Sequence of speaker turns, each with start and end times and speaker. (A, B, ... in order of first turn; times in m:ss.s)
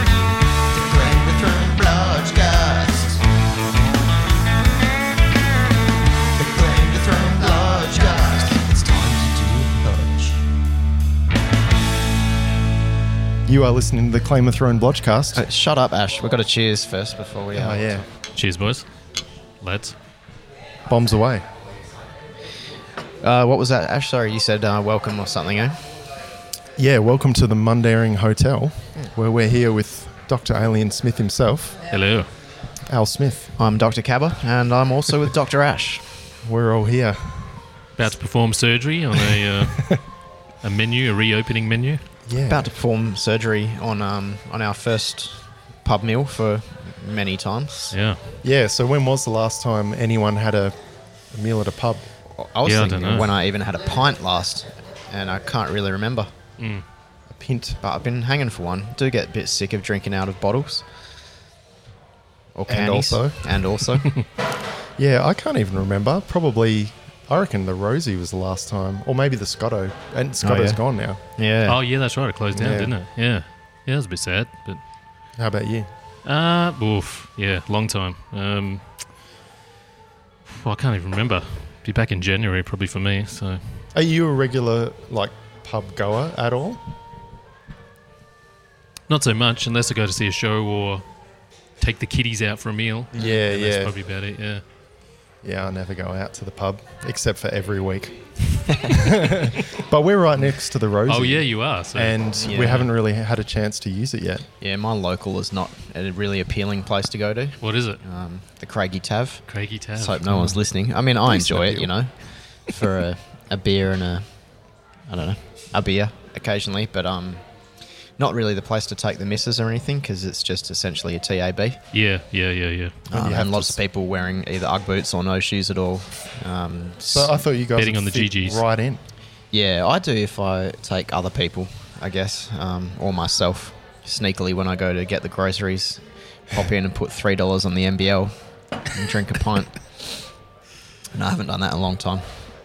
0:00.7-0:03.2 A
0:06.4-0:10.4 A
0:13.4-0:15.4 B
0:15.3-0:18.0 A
0:17.5-0:18.0 B
0:18.3-0:18.9 C
0:19.6-0:19.9 C
0:20.9-0:21.4 B
0:23.2-0:25.8 A
0:26.8-0:31.8 B
0:31.9-0:32.3 C
0:32.8-0:33.5 B
0:33.6-0:36.2 A
0:36.4-0:37.6 B
0:38.0-0:40.0 C
0:39.7-0:40.0 B
0:40.6-0:42.0 C
0:42.2-0:42.7 B
0:42.5-0:48.0 A
0:47.9-0:48.2 C
0:48.4-0:50.7 B
0:51.3-0:52.1 B
0:52.3-0:56.3 A
0:52.6-0:53.3 C
0:56.6-0:56.8 C
0:57.3-0:57.8 B
0:57.8-1:00.8 A
1:02.5-1:04.2 A
1:02.7-1:03.6 B
1:05.0-1:11.2 B
1:10.4-1:10.8 A
1:11.4-1:11.8 A
1:11.6-1:14.8 C
1:12.5-1:12.9 B
1:15.4-1:15.9 B
1:16.2-1:18.8 C
1:20.4-1:23.6 C
1:23.9-1:26.8 B
1:29.1-1:31.0 C
1:31.8-1:34.6 C
1:33.1-1:33.9 B
1:35.4-1:44.5 B
1:41.1-1:42.2 C
1:42.4-1:42.9 A
1:44.6-1:54.2 A
1:47.6-1:48.0 C
1:49.5-1:50.3 C
1:50.3-1:50.6 B
1:51.2-1:51.9 B
1:55.1-1:57.4 A
1:58.2-2:01.8 A
2:01.9-2:03.1 C
2:03.1-2:03.8 B
2:03.1-2:07.4 A
2:07.1-2:09.0 B
2:07.8-2:08.6 C
2:09.5-2:20.2 A
2:21.1-2:22.4 A